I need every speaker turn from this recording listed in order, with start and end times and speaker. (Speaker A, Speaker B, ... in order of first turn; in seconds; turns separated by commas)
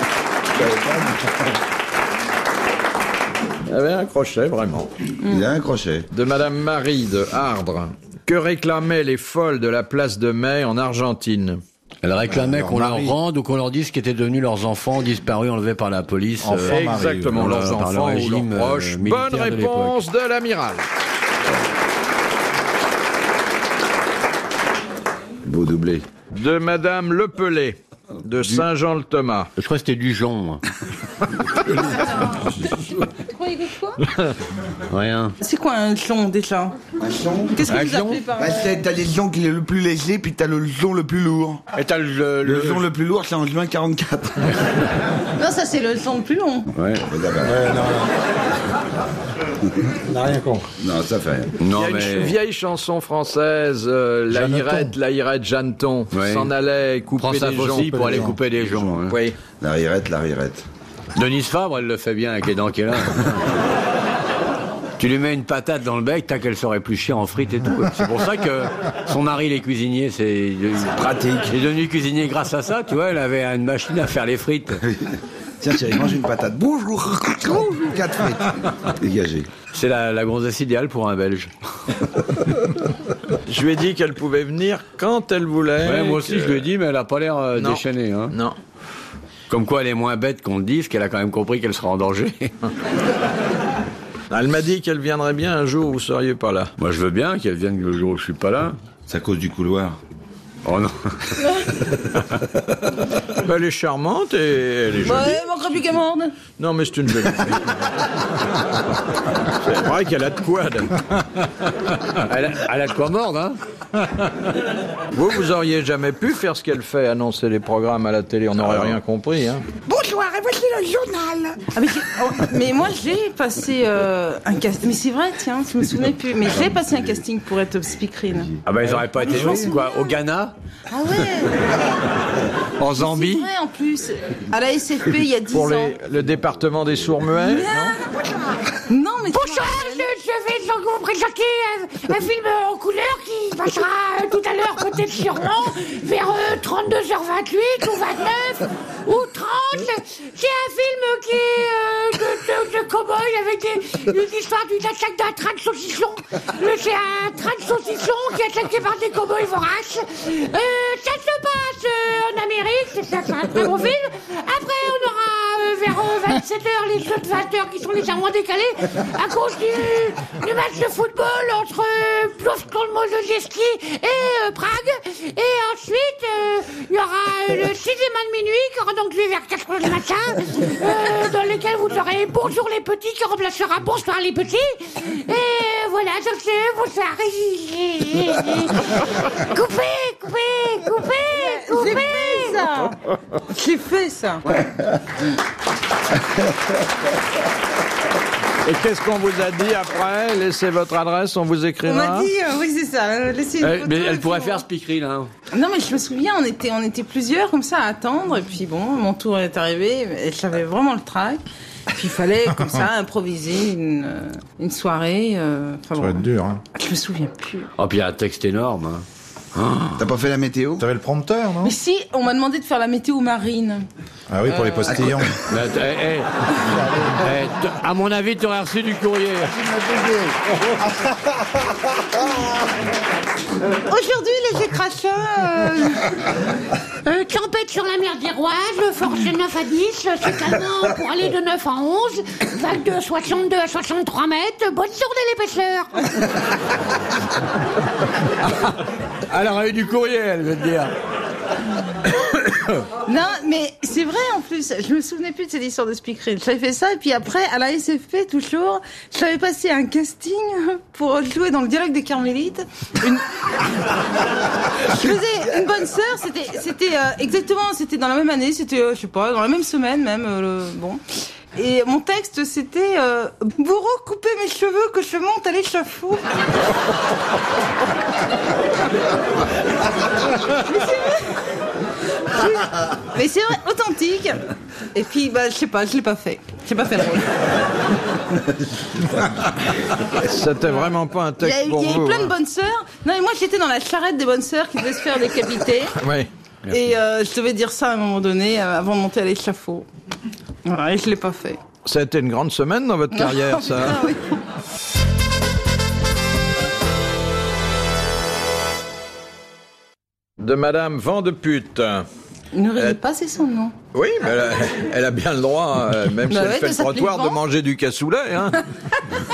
Speaker A: 0.5-1.6, Speaker B: 3.7-4.9, Speaker A: 5.2-6.1, Speaker B: 6.1-11.6, Speaker C: 12.0-16.7, Speaker D: 12.3-13.2, Speaker D: 16.4-17.6, Speaker B: 16.6-20.9, Speaker C: 17.3-20.0, Speaker A: 25.4-26.1, Speaker B: 26.3-29.5, Speaker C: 29.6-30.6, Speaker E: 32.0-34.0, Speaker C: 34.9-35.3, Speaker E: 35.4-36.8, Speaker A: 37.0-37.6, Speaker E: 37.5-38.6, Speaker C: 37.6-38.2, Speaker A: 38.3-41.6, Speaker C: 41.7-42.9, Speaker A: 42.4-44.8, Speaker E: 45.4-46.7, Speaker C: 46.7-47.0, Speaker A: 47.0-47.7, Speaker D: 47.4-48.1, Speaker A: 49.6-49.9, Speaker D: 50.0-50.7, Speaker A: 50.8-51.5, Speaker C: 51.6-52.4, Speaker B: 51.7-58.2, Speaker D: 54.3-55.0, Speaker C: 56.1-56.5, Speaker C: 57.2-59.2, Speaker D: 57.8-58.4, Speaker B: 59.1-59.4, Speaker A: 59.6-60.6, Speaker C: 61.1-63.5, Speaker C: 65.0-74.8, Speaker A: 70.9-71.5, Speaker A: 74.9-79.5, Speaker C: 79.7-81.5, Speaker B: 83.5-86.6, Speaker C: 85.8-88.3, Speaker B: 87.5-88.6, Speaker C: 89.5-92.5, Speaker B: 94.3-96.7, Speaker C: 96.8-98.8, Speaker A: 99.1-100.0, Speaker C: 100.6-101.5, Speaker B: 103.3-105.4, Speaker E: 105.0-106.4, Speaker B: 106.6-107.7, Speaker B: 109.5-111.5, Speaker C: 112.2-113.6, Speaker B: 114.0-114.5, Speaker B: 115.1-119.7, Speaker E: 121.6-130.2, Speaker C: 128.6-130.5, Speaker D: 128.8-129.7, Speaker E: 130.9-131.8, Speaker C: 132.8-133.4, Speaker E: 132.9-136.0, Speaker B: 135.5-138.0, Speaker E: 137.4-138.0, Speaker E: 138.9-140.1, Speaker F: 139.3-192.7, Speaker E: 191.3-194.5, Speaker B: 198.6-202.3, Speaker E: 201.8-204.6, Speaker C: 203.6-205.3, Speaker E: 205.5-217.7, Speaker D: 216.0-216.6, Speaker C: 217.8-220.0, Speaker A: 220.0-220.8, Speaker D: 220.8-221.7, Speaker E: 221.6-223.9, Speaker D: 224.3-225.4, Speaker E: 224.5-224.8, Speaker C: 225.5-229.5, Speaker D: 226.8-227.1, Speaker A: 229.5-230.4, Speaker E: 233.9-236.2, Speaker F: 237.0-246.2, Speaker C: 249.3-250.9, Speaker E: 253.0-263.7, Speaker E: 264.7-271.0, Speaker E: 271.5-276.2, Speaker E: 280.4-281.4, Speaker E: 282.3-287.4, Speaker B: 290.1-292.3, Speaker E: 291.4-295.9, Speaker B: 296.0-296.3, Speaker E: 296.7-299.9, Speaker E: 300.6-301.6, Speaker B: 301.9-304.1, Speaker E: 303.1-304.4, Speaker B: 310.4-312.1, Speaker E: 312.5-313.7, Speaker B: 313.9-318.6, Speaker E: 316.3-317.4